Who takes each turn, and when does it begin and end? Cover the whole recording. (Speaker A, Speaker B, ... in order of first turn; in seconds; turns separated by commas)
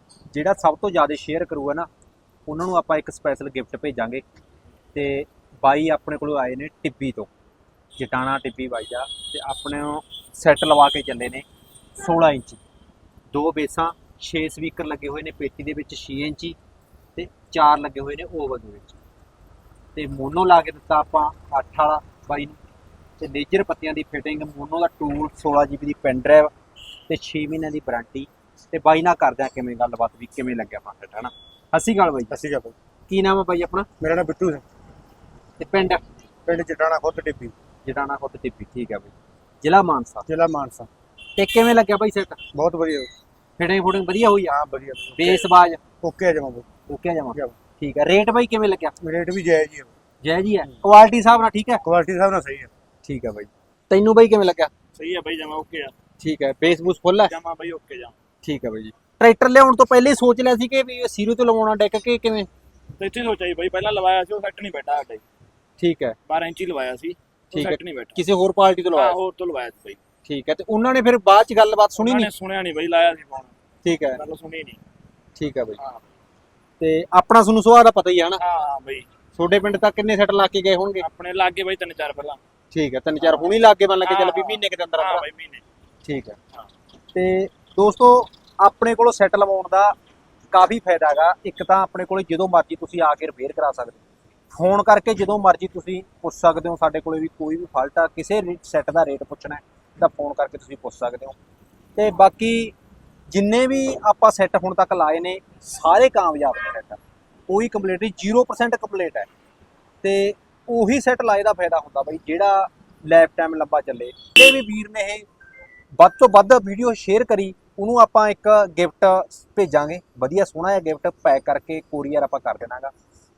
Speaker A: 0.3-1.9, Speaker A: 2.5-4.2, Speaker A: 4.9-7.3, Speaker A: 8.0-11.4, Speaker A: 12.0-12.6, Speaker A: 13.3-16.6, Speaker A: 17.1-19.0, Speaker A: 19.9-22.6, Speaker A: 23.2-26.5, Speaker A: 27.1-32.3, Speaker B: 32.3-32.7, Speaker A: 33.1-33.9, Speaker B: 34.0-34.6, Speaker A: 35.6-36.0, Speaker B: 36.5-37.5, Speaker A: 37.8-40.2, Speaker B: 40.3-40.9, Speaker A: 41.4-42.4, Speaker B: 42.5-43.1, Speaker A: 43.6-44.6, Speaker B: 44.5-45.4, Speaker A: 45.2-45.8, Speaker B: 46.0-46.6, Speaker A: 46.9-48.9, Speaker B: 49.0-49.9, Speaker A: 50.2-51.8, Speaker B: 51.8-52.7, Speaker A: 53.0-54.7, Speaker C: 54.9-55.9, Speaker A: 56.2-57.3, Speaker C: 57.3-58.1, Speaker A: 58.4-62.5, Speaker C: 63.0-65.2, Speaker A: 65.8-66.2, Speaker C: 66.3-68.2, Speaker A: 67.5-69.2, Speaker C: 68.9-70.0, Speaker A: 70.2-72.3, Speaker C: 72.0-73.5, Speaker A: 73.8-74.2, Speaker C: 74.1-74.8, Speaker A: 75.4-75.8, Speaker A: 76.8-78.4, Speaker C: 78.4-79.1, Speaker A: 79.3-81.1, Speaker C: 81.0-82.4, Speaker A: 82.7-85.2, Speaker C: 83.2-85.6, Speaker A: 86.0-86.4, Speaker A: 87.1-89.9, Speaker A: 90.5-101.3, Speaker A: 102.0-102.7, Speaker A: 103.3-109.3, Speaker A: 110.0-115.2, Speaker A: 115.9-122.9